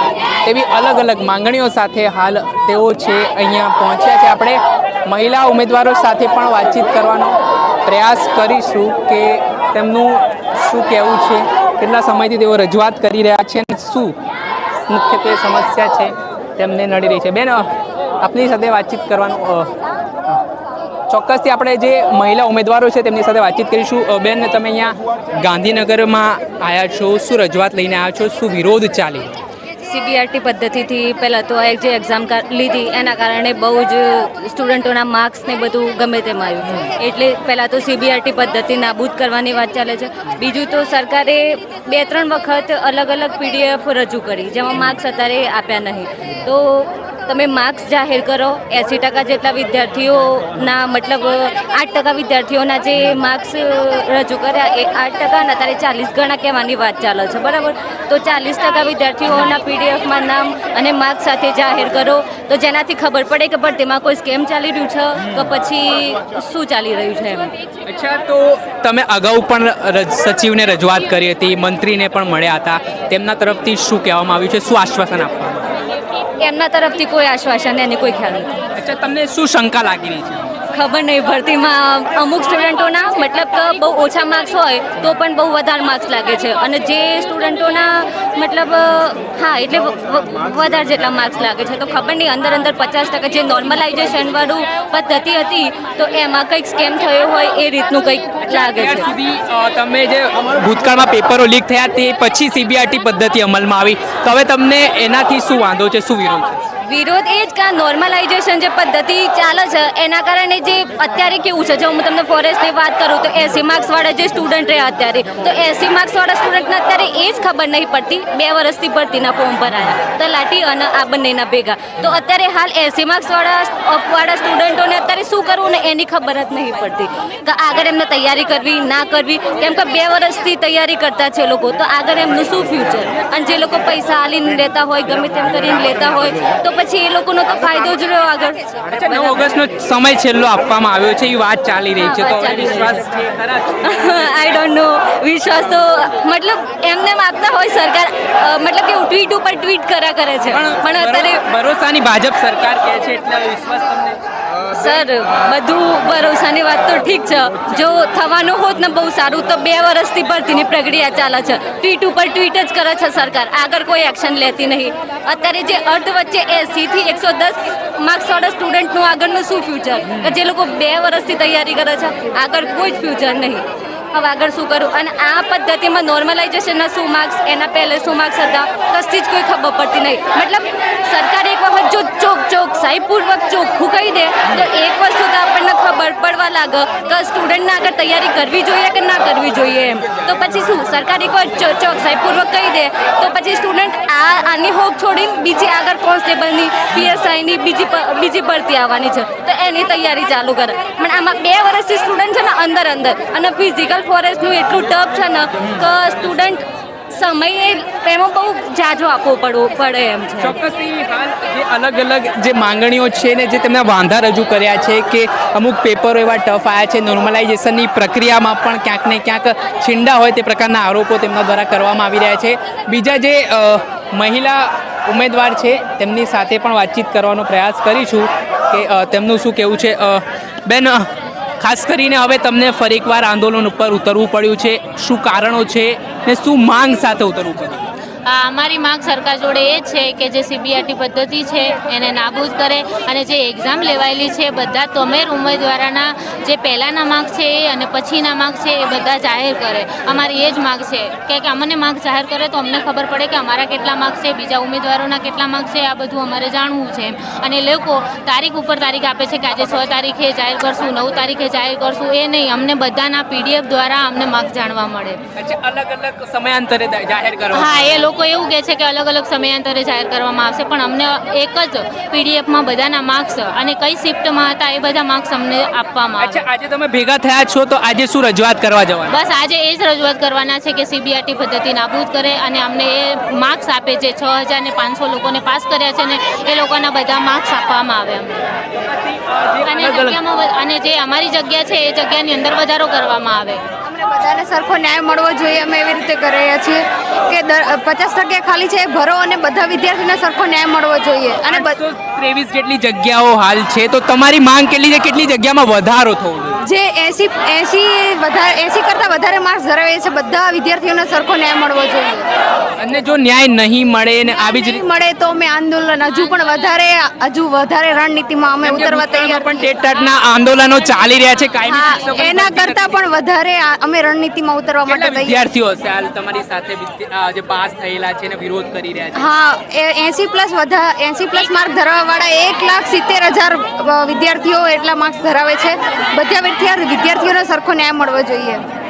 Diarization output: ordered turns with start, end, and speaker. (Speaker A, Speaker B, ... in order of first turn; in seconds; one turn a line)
Speaker A: 0.5-14.2
Speaker A: 14.9-19.7
Speaker A: 21.1-29.4
Speaker B: 29.8-67.5
Speaker A: 67.9-75.8
Speaker B: 76.4-78.6
Speaker A: 78.8-80.5
Speaker B: 80.7-99.1
Speaker A: 98.5-106.6
Speaker B: 106.8-139.5
Speaker A: 139.0-144.2
Speaker B: 142.0-143.0
Speaker B: 143.8-151.4
Speaker A: 150.5-154.2
Speaker B: 154.7-210.6
Speaker A: 210.4-231.1
Speaker A: 231.6-237.9
Speaker C: 238.3-265.2
Speaker A: 265.4-268.0
Speaker C: 267.5-276.4
Speaker A: 276.2-279.2
Speaker C: 279.1-288.5
Speaker A: 288.9-290.2
Speaker C: 289.6-293.6
Speaker D: 293.9-301.8
Speaker A: 301.5-306.6
Speaker D: 306.6-312.3
Speaker A: 312.8-314.8
Speaker D: 314.3-319.7
Speaker A: 318.6-323.0
Speaker D: 321.6-325.5
Speaker A: 324.9-329.3
Speaker D: 329.1-338.6